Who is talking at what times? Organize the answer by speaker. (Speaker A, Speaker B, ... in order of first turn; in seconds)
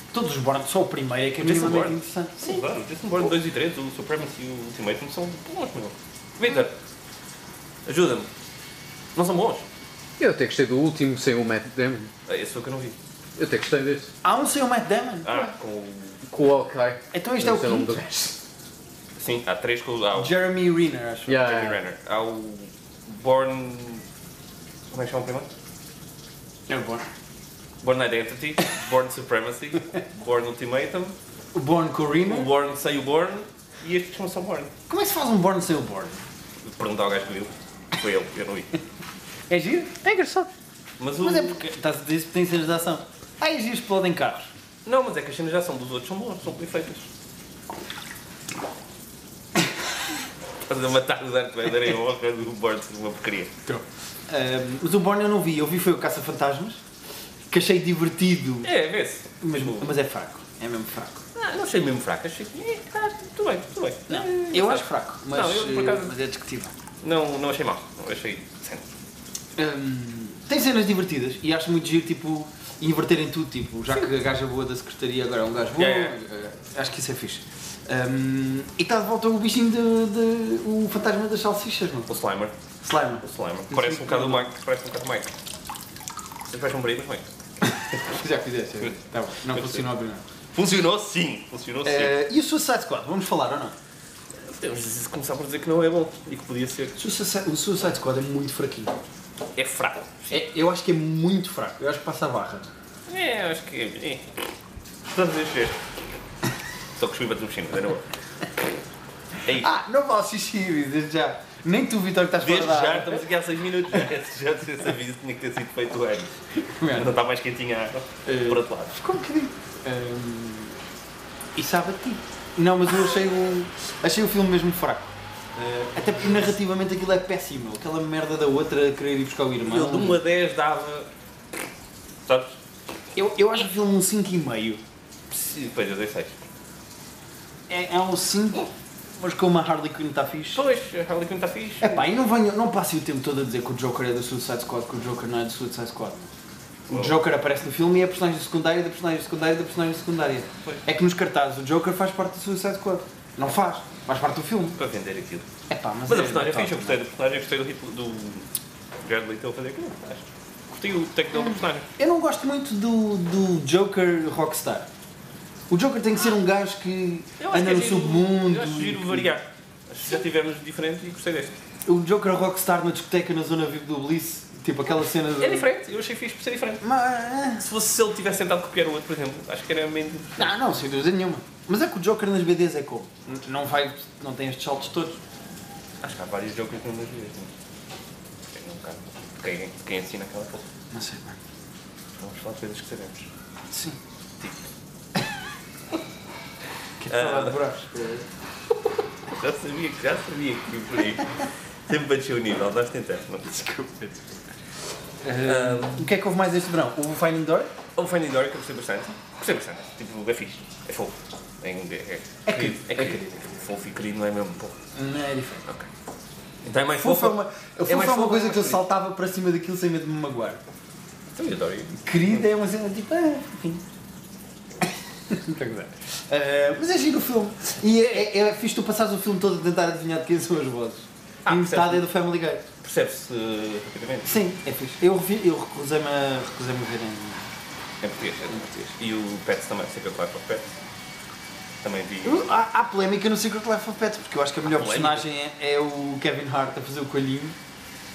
Speaker A: 0.1-2.6, 14.2-15.5, 17.1-18.4, 20.1-21.5, 26.7-27.1, 31.5-32.5, 34.9-36.2, 39.5-40.5, 41.2-44.5, 53.7-56.8, 57.5-58.7, 59.4-61.2, 64.1-66.7, 69.6-82.1, 82.8-84.5, 87.6-90.2, 91.8-93.8, 97.0-98.9, 100.3-102.7, 109.5-113.2, 116.6-117.1, 118.3-120.8, 121.6-130.2, 133.1-134.8, 137.7-140.6, 141.8-146.3, 146.9-154.8, 155.7-157.0, 161.4-164.9, 165.7-169.3, 171.9-175.7, 176.8-177.6, 180.4-185.2, 190.9-191.4, 193.7-194.0, 197.0-198.2, 203.5-204.3, 205.2-207.7, 212.5-213.5, 214.9-215.7, 217.0-220.6, 222.0-223.8, 225.3-232.7, 234.2-237.4, 242.2-247.6
Speaker B: 1.4-6.7, 7.9-8.3, 9.1-9.7, 12.3-13.0, 15.2-16.2, 19.2-20.4, 21.3-24.1, 24.9-25.5, 27.8-31.2, 32.2-34.7, 36.6-38.7, 41.0-41.6, 44.9-47.1, 50.7-53.5, 58.6-60.0, 61.4-66.1, 67.0-68.9, 75.8-76.1, 82.1-82.5, 83.2-85.3, 86.5-87.3, 89.5-89.8, 90.5-92.1, 94.5-97.0, 99.6-100.4, 103.1-104.3, 105.1-105.8, 107.0-108.1, 112.4-116.3, 116.9-119.0, 129.6-131.1, 132.3-132.6, 135.3-136.4, 140.5-142.1, 154.8-155.5, 156.1-158.5, 159.0-161.9, 167.4-171.6, 175.4-176.8, 177.6-180.5, 186.0-187.5, 188.5-190.7, 192.2-193.3, 197.1-197.6, 199.3-203.5, 205.4-206.1, 208.0-214.8, 216.6-218.8, 221.3-222.4, 231.4-232.1, 232.8-234.3, 238.0-240.7, 241.8-242.4, 244.6-245.3
Speaker C: 10.2-12.1, 13.4-14.1, 16.3-18.1, 21.3-21.8